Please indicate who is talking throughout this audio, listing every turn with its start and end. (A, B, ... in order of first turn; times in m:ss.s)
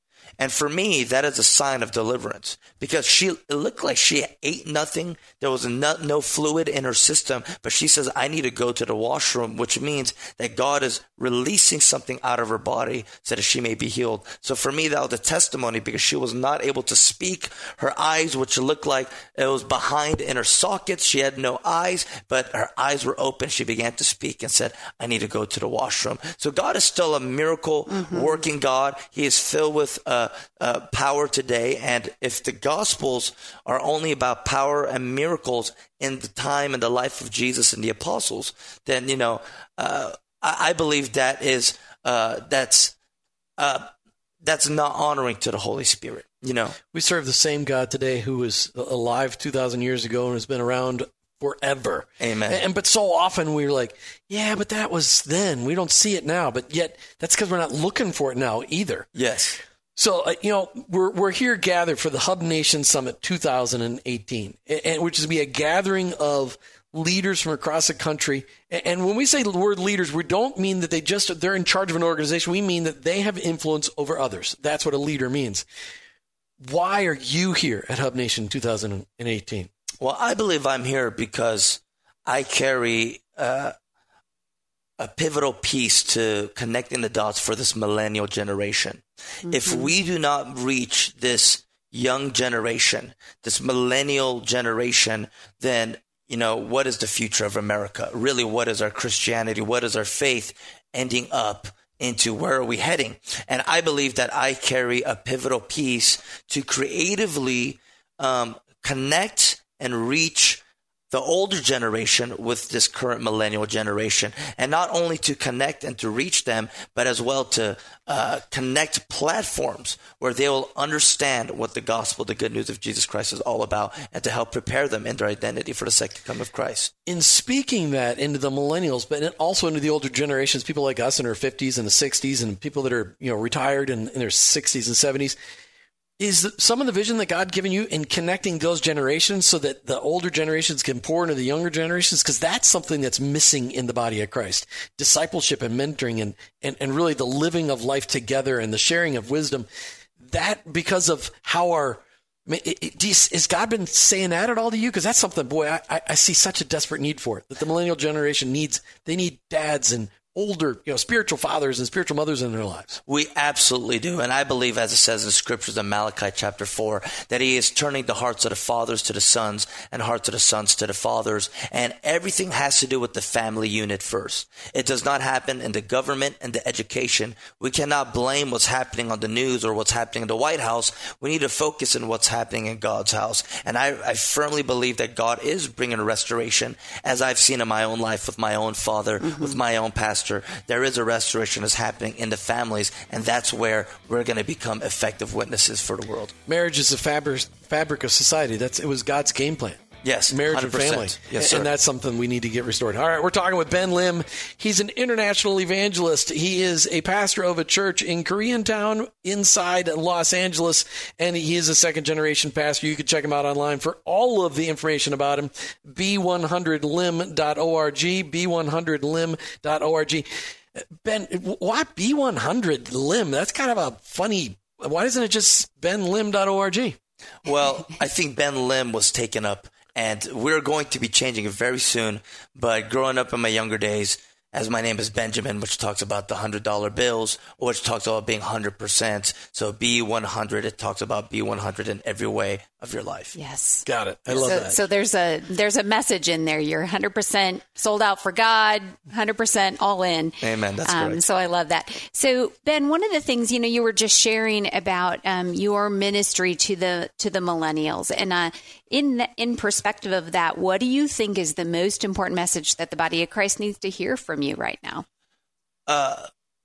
0:00.4-0:42.9 A
0:43.6-0:43.9 A
0:44.4-0:46.8 A
0:46.9-0:59.1 B
0:52.2-0:52.6 A
0:59.1-0:59.6 A
1:00.0-1:15.6 B
1:16.6-1:19.7 B
1:20.0-1:23.7 A
1:25.0-2:06.9 A
2:07.0-2:15.4 B
2:16.2-2:29.6 B
2:30.2-2:43.0 B
2:43.1-3:16.3 A
3:16.4-3:47.0 B
3:20.0-3:21.7 A
3:47.4-4:03.3 A
4:03.4-4:03.8 C
4:03.8-4:04.8 B
4:04.4-4:25.0 C
4:10.4-4:11.2 A
4:25.9-4:26.3 A